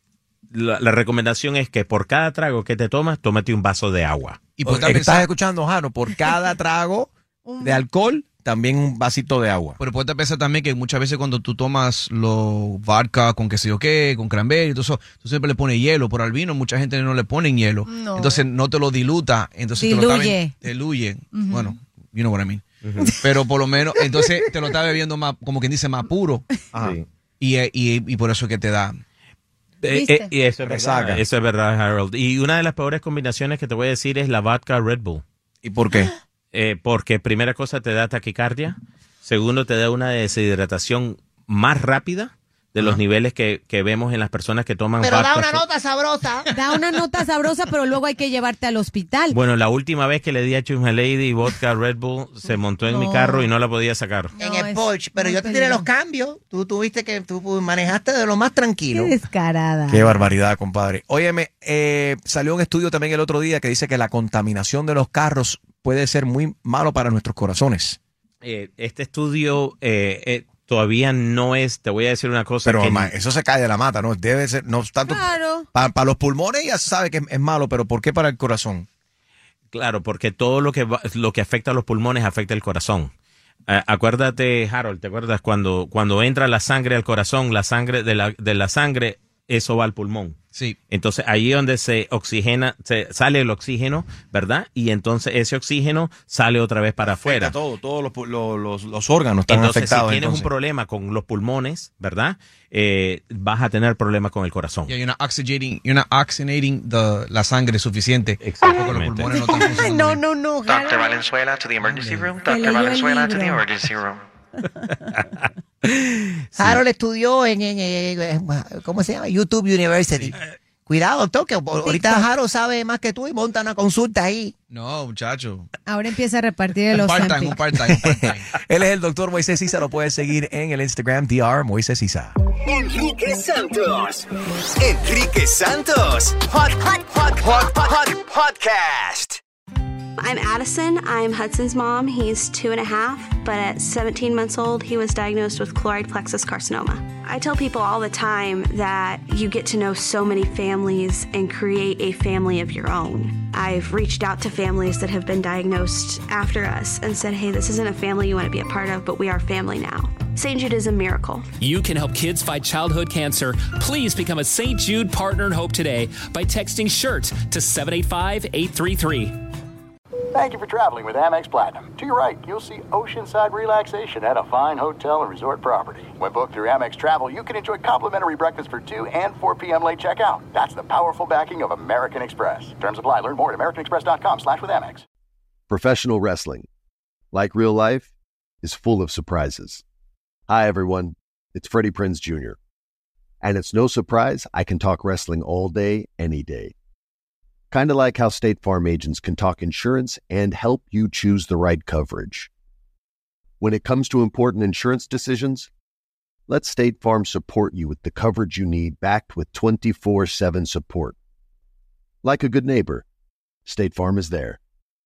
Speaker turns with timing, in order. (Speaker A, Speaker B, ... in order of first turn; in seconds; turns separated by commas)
Speaker A: 0.5-4.4, Speaker B: 4.6-5.3, Speaker C: 4.7-7.1, Speaker D: 7.5-7.8, Speaker C: 7.6-9.8, Speaker B: 9.8-22.6, Speaker D: 17.9-18.4, Speaker D: 19.8-20.5, Speaker D: 21.3-21.7, Speaker B: 23.2-26.5, Speaker A: 26.8-27.1, Speaker B: 27.4-29.0, Speaker A: 29.8-35.2, Speaker D: 29.9-30.4, Speaker C: 30.6-31.2, Speaker C: 35.6-36.1, Speaker A: 36.5-45.6, Speaker E: 45.0-47.2, Speaker D: 46.5-49.4, Speaker A: 49.3-54.3, Speaker D: 52.9-53.5, Speaker D: 54.4-55.9, Speaker E: 54.4-59.1, Speaker D: 59.0-60.3, Speaker C: 59.9-68.0, Speaker A: 68.4-73.1, Speaker C: 72.7-78.9, Speaker D: 75.1-75.7, Speaker A: 79.7-83.1, Speaker A: 83.7-90.4, Speaker A: 90.9-97.5, Speaker C: 97.2-100.5, Speaker A: 99.5-104.9, Speaker B: 104.9-110.3, Speaker A: 108.4-109.4, Speaker D: 109.3-111.1, Speaker F: 110.6-114.2, Speaker B: 111.8-112.3, Speaker D: 112.5-113.6, Speaker A: 115.9-116.8, Speaker E: 116.6-124.5, Speaker B: 124.7-125.7, Speaker D: 125.9-127.6, Speaker B: 126.9-128.5, Speaker C: 127.9-132.3, Speaker G: 132.7-134.2, Speaker G: 134.8-139.4, Speaker H: 140.2-161.5, Speaker I: 161.6-169.3, Speaker J: 170.3-185.0, Speaker K: 185.7-186.7, Speaker K: 187.3-188.1, Speaker K: 188.6-189.8, Speaker K: 190.5-192.6, Speaker K: 193.4-196.7, Speaker K: 197.7-202.5, Speaker K: 203.6-205.7, Speaker K: 206.5-211.2, Speaker K: 212.2-213.0, Speaker K: 213.7-214.6